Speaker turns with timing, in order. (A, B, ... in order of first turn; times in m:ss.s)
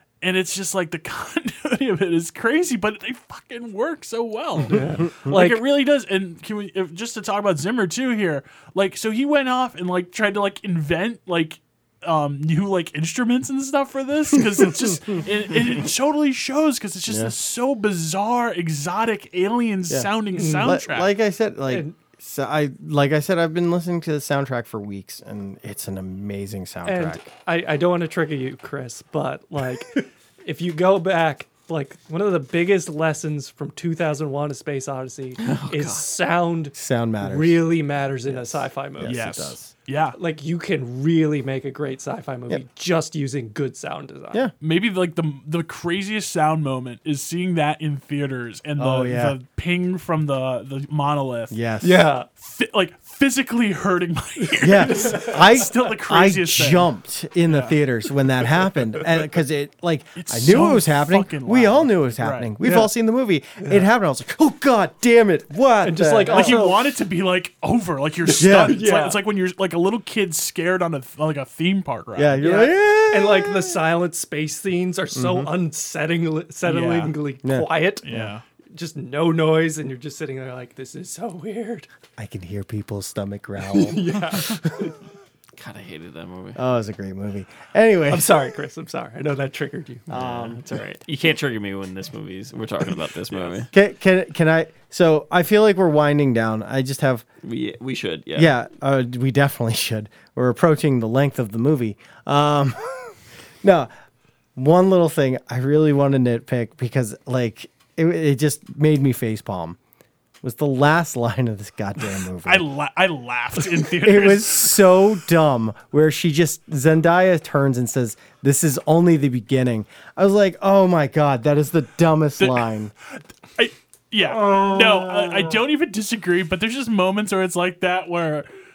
0:00.2-0:21.1 A
0:04.7-0:05.6 B
0:14.4-0:14.9 C
0:17.1-0:17.4 C
0:19.9-0:27.2 C
0:20.3-0:20.8 B
0:21.7-0:22.0 B
0:26.8-0:39.4 B
0:35.4-0:36.0 D
0:36.8-0:37.7 C
0:38.2-0:39.7 C
0:39.0-0:40.2 A
0:40.1-0:44.4 B
0:44.6-0:51.6 A
0:48.8-0:49.4 C
0:51.5-0:52.0 C
0:51.8-0:52.3 B
0:52.3-0:56.9 A
0:54.6-1:06.6 C
0:54.8-0:55.4 B
0:57.5-0:57.8 A
1:00.2-1:02.5 A
1:02.6-1:02.9 B
1:03.6-1:03.8 B
1:05.8-1:06.8 B
1:06.3-1:12.5 A
1:08.3-1:08.8 C
1:08.5-1:09.2 B
1:12.2-1:13.8 C
1:12.4-1:18.0 B
1:15.1-1:15.5 C
1:16.7-1:17.2 A
1:17.4-1:18.3 C
1:18.0-1:18.4 A
1:18.7-1:21.9 B
1:22.2-1:24.7 C
1:23.7-1:25.0 B
1:24.2-1:24.5 A
1:25.6-1:26.6 D
1:26.6-1:28.3 C
1:28.1-1:30.1 B
1:30.1-1:30.6 C
1:30.1-1:33.7 D
1:33.7-1:37.2 C
1:37.4-1:38.5 D
1:38.4-1:42.8 C
1:43.6-1:43.9 C
1:44.6-1:49.8 C
1:50.4-1:52.7 C
1:52.5-1:54.8 A
1:54.0-2:02.9 C
2:02.4-2:02.6 A
2:03.6-2:08.5 A
2:04.2-2:05.6 C